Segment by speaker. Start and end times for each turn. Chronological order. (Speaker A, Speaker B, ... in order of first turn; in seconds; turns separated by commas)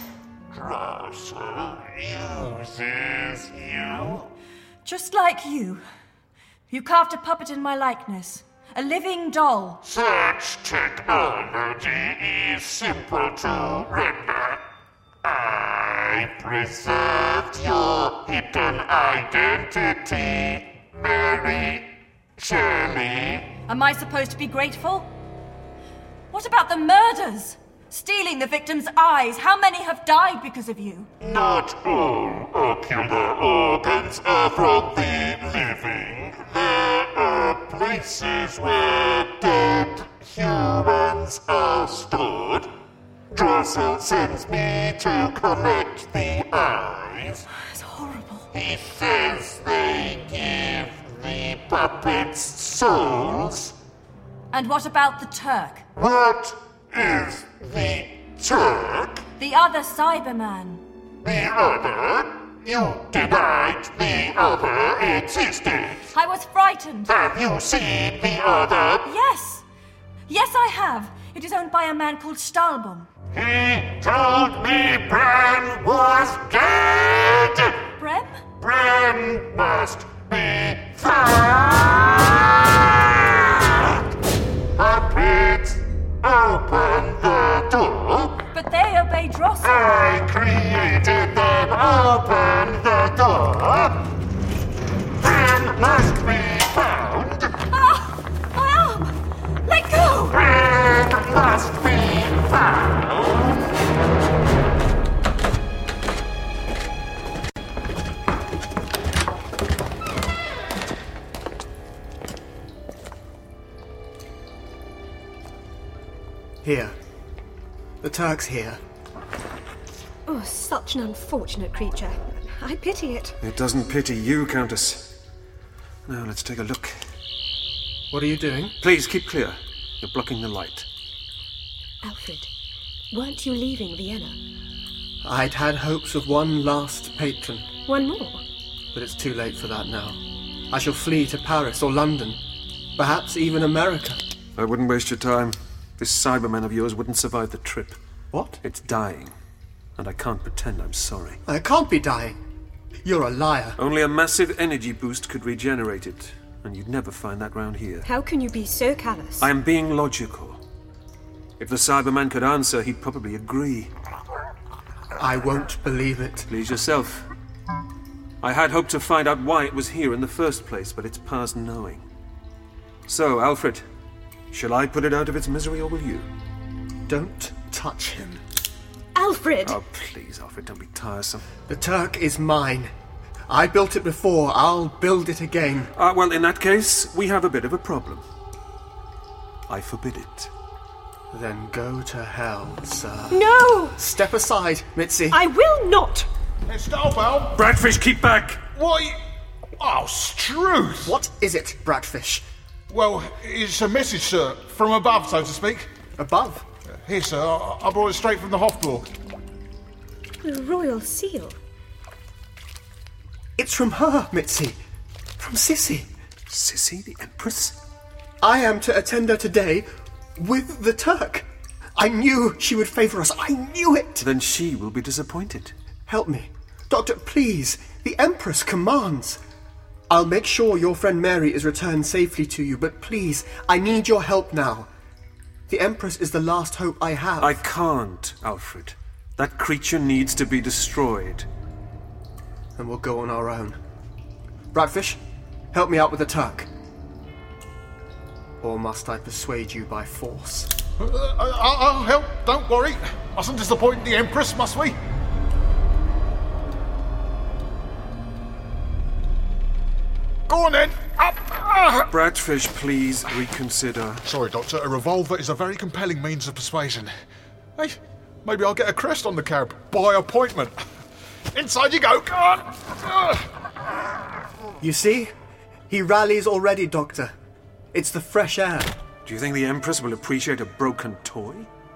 Speaker A: 0.5-4.2, Speaker B: 4.8-5.8, Speaker B: 6.7-9.8, Speaker A: 9.8-14.6, Speaker A: 15.2-23.5, Speaker B: 23.7-25.1, Speaker B: 26.3-31.1, Speaker A: 31.2-42.7, Speaker A: 43.3-47.4, Speaker B: 47.5-48.5, Speaker A: 48.5-53.7, Speaker B: 54.5-55.9, Speaker A: 56.0-59.2, Speaker B: 59.4-60.8, Speaker A: 61.2-66.0, Speaker B: 66.1-67.1, Speaker A: 67.1-69.0, Speaker B: 69.0-69.6, Speaker B: 70.3-73.1, Speaker A: 73.3-77.8, Speaker B: 78.0-78.4, Speaker A: 78.6-83.6, Speaker A: 84.8-88.3, Speaker B: 88.5-90.1, Speaker A: 89.6-93.9, Speaker A: 95.2-97.3, Speaker B: 97.7-99.1, Speaker B: 99.7-100.5, Speaker A: 100.5-102.5, Speaker C: 116.6-116.9, Speaker C: 118.0-118.8, Speaker D: 120.2-123.4, Speaker E: 123.4-125.1, Speaker E: 126.1-127.0, Speaker C: 128.1-128.7, Speaker E: 128.8-130.9, Speaker D: 132.0-132.5, Speaker D: 133.1-134.4, Speaker C: 135.2-137.7, Speaker D: 137.9-138.4, Speaker C: 138.9-140.2, Speaker C: 140.7-142.4, Speaker C: 143.0-144.2, Speaker E: 144.6-148.0, Speaker C: 148.3-148.6, Speaker E: 148.6-149.3, Speaker E: 150.0-151.4, Speaker C: 151.4-152.4, Speaker C: 153.0-153.8, Speaker E: 153.8-158.1, Speaker D: 158.0-159.5, Speaker E: 159.4-160.6, Speaker E: 161.6-163.9, Speaker C: 165.2-166.5, Speaker E: 166.5-167.2, Speaker E: 168.4-172.0, Speaker E: 173.1-173.8, Speaker E: 174.5-176.3, Speaker C: 177.1-178.4, Speaker D: 179.1-179.8, Speaker E: 179.6-181.4, Speaker C: 181.7-182.9, Speaker C: 183.5-185.9, Speaker E: 185.9-188.2, Speaker E: 189.7-190.5, Speaker C: 191.3-195.4, Speaker D: 193.3-194.0, Speaker D: 195.3-196.3, Speaker F: 196.7-197.6, Speaker E: 197.5-198.7, Speaker F: 198.7-199.2, Speaker F: 199.8-201.1, Speaker C: 201.0-202.4, Speaker F: 202.9-205.9, Speaker C: 206.2-206.7, Speaker F: 207.0-209.1, Speaker D: 210.4-211.6, Speaker C: 213.6-214.8, Speaker C: 215.4-216.1, Speaker E: 216.5-217.8, Speaker C: 218.4-224.2, Speaker E: 224.2-225.7, Speaker C: 226.1-229.4, Speaker C: 230.1-234.9, Speaker C: 235.7-237.6, Speaker E: 237.4-241.5, Speaker C: 242.8-243.8, Speaker C: 244.7-245.2, Speaker C: 245.7-246.7, Speaker C: 248.6-250.7, Speaker F: 251.0-254.9, Speaker F: 260.5-262.1, Speaker E: 262.1-264.2, Speaker F: 264.2-267.1, Speaker F: 267.8-270.8, Speaker F: 271.5-273.4, Speaker C: 274.8-275.3, Speaker C: 275.9-277.3, Speaker C: 277.9-278.9, Speaker E: 279.2-281.7